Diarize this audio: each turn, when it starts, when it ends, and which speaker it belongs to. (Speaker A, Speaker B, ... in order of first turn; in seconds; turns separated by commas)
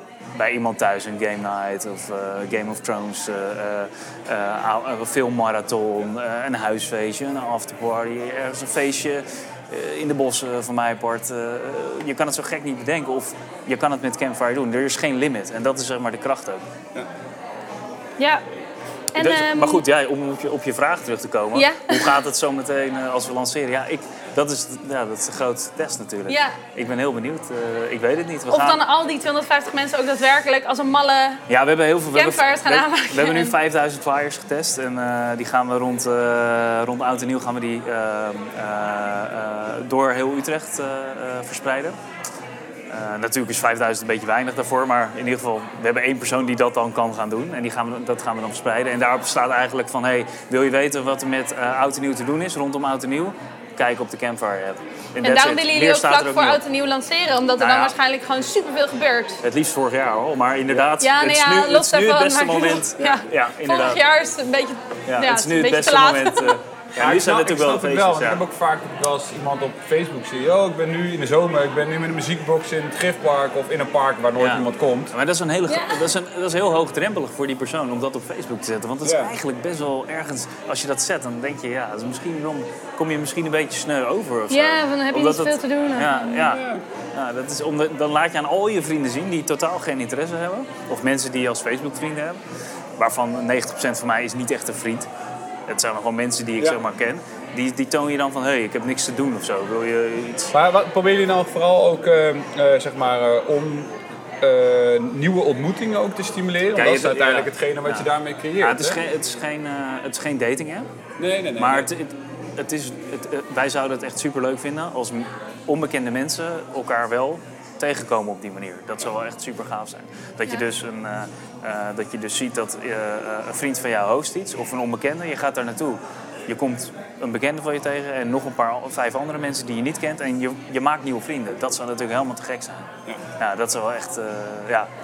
Speaker A: 0.4-16.6, Speaker B: 19.1-19.8, Speaker A: 19.2-28.8, Speaker B: 21.6-22.2, Speaker B: 26.3-26.6, Speaker B: 28.5-31.4, Speaker A: 31.5-42.0, Speaker B: 32.1-33.5, Speaker A: 42.9-56.6, Speaker B: 55.2-59.4, Speaker A: 57.6-57.9, Speaker A: 59.4-64.0, Speaker B: 61.0-66.6, Speaker A: 65.1-68.4, Speaker C: 67.0-75.1, Speaker A: 74.4-92.4, Speaker B: 75.7-76.1, Speaker C: 79.0-79.3, Speaker B: 84.5-86.6, Speaker C: 86.4-86.8, Speaker A: 93.0-95.1, Speaker A: 95.7-100.5, Speaker C: 100.5-109.0, Speaker A: 106.7-108.1, Speaker A: 108.6-110.9, Speaker C: 111.2-111.9, Speaker A: 111.6-132.9, Speaker A: 133.4-134.9